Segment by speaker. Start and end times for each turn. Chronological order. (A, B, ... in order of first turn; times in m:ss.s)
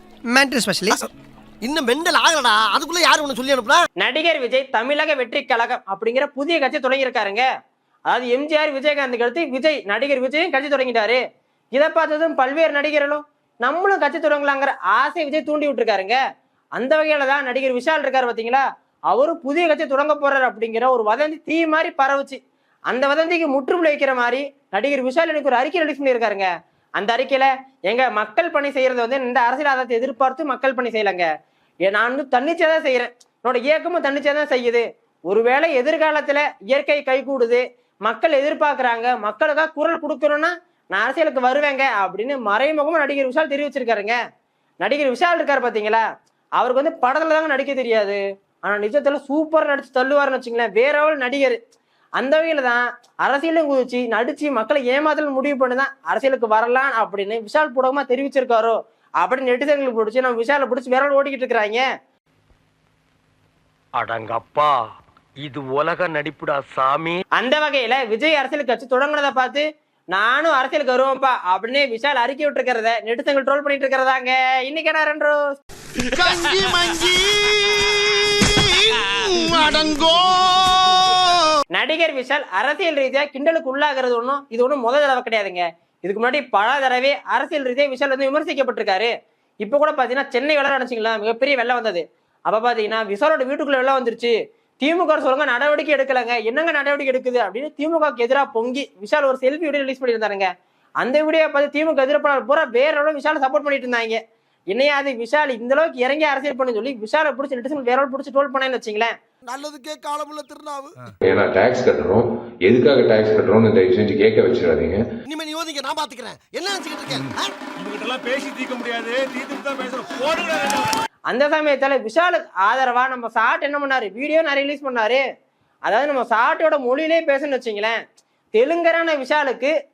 0:00.3-0:01.1 A
0:01.6-0:03.8 A
0:04.0-0:07.4 B
0:08.1-0:11.2 B
0:11.7-0:16.2 B
0:16.8-0:31.3 B
0:31.8-0:44.2 B
0:44.8-0:46.0 B
0:46.6-0:51.6 B
0:52.2-1:01.8 B
1:04.0-1:04.8 C
1:05.4-1:07.2 C
1:07.4-1:15.6 B
1:16.2-1:21.4 A
1:21.7-1:29.1 B
1:29.6-1:40.5 B
1:41.0-1:44.2 B
1:44.7-1:49.1 B
1:49.5-1:50.9 A
1:51.2-1:55.0 D
1:55.3-1:57.5 A
1:57.8-2:00.9 E
2:01.3-2:05.2 B
2:05.8-2:08.0 B
2:08.5-2:09.7 B